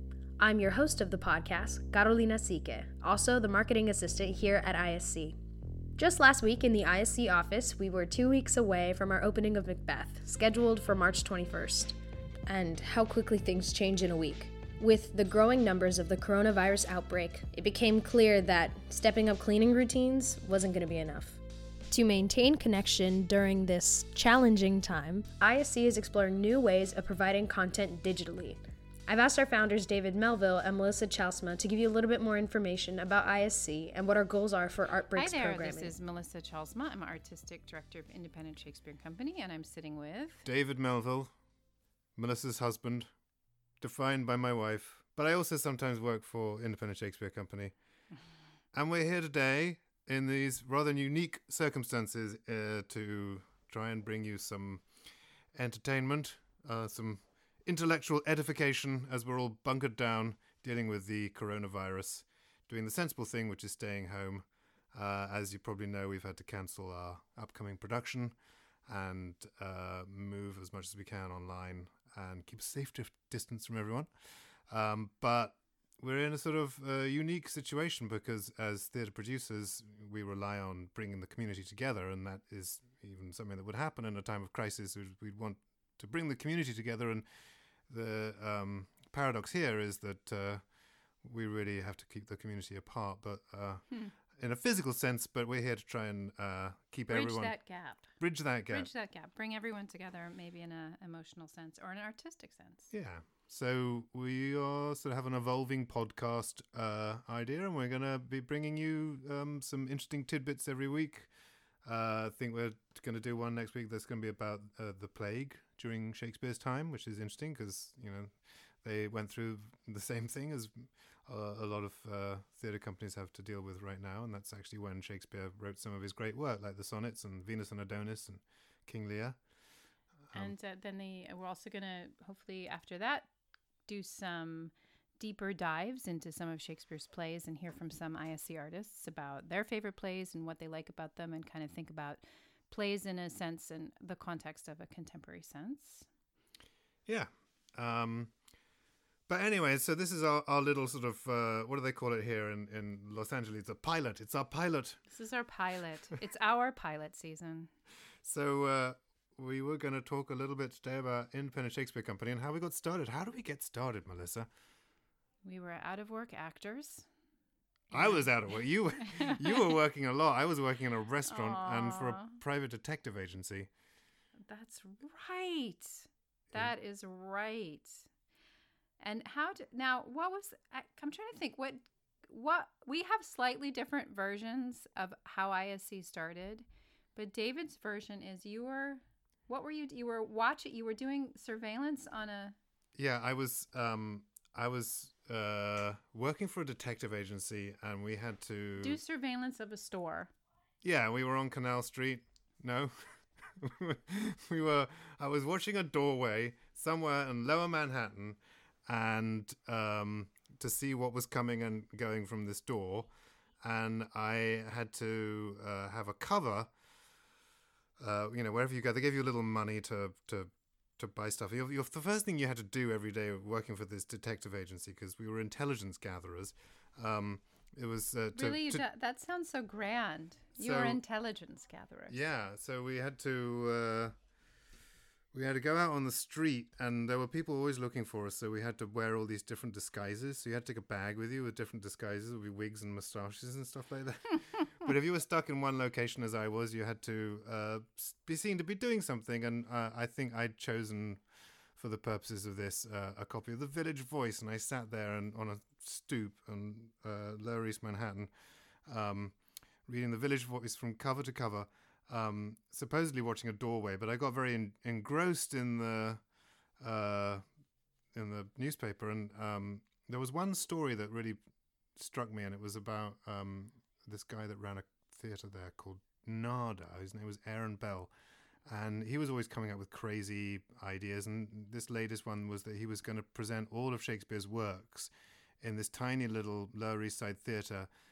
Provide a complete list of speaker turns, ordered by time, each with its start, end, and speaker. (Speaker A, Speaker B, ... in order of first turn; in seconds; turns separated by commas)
Speaker A: 0.4-5.3, Speaker A: 6.0-12.0, Speaker A: 12.5-35.9, Speaker B: 35.1-40.4, Speaker C: 40.5-41.3, Speaker C: 42.2-43.1, Speaker C: 43.8-47.8, Speaker C: 48.7-55.0, Speaker C: 55.5-87.3, Speaker C: 87.9-90.7, Speaker C: 91.2-98.9, Speaker B: 97.1-102.9, Speaker C: 102.9-111.3, Speaker C: 111.8-129.4, Speaker C: 130.3-130.6, Speaker B: 130.3-133.3, Speaker B: 133.9-146.1, Speaker C: 147.1-148.3, Speaker C: 149.3-155.0, Speaker B: 155.1-157.7, Speaker C: 158.2-164.5, Speaker B: 165.4-167.1, Speaker B: 167.9-168.3, Speaker C: 167.9-173.7, Speaker B: 169.0-169.8, Speaker B: 171.3-172.4, Speaker B: 174.5-178.1, Speaker B: 179.0-192.6, Speaker C: 193.0-199.0, Speaker B: 198.8-200.3, Speaker C: 200.8-202.9, Speaker C: 203.6-213.1, Speaker C: 213.6-216.7, Speaker C: 218.0-228.8, Speaker B: 228.3-232.2, Speaker C: 230.6-231.0, Speaker C: 232.1-234.1, Speaker C: 235.3-251.2, Speaker C: 251.8-258.3, Speaker C: 258.9-266.2, Speaker C: 266.8-267.4, Speaker C: 268.1-271.4, Speaker C: 271.9-278.1, Speaker C: 278.7-287.9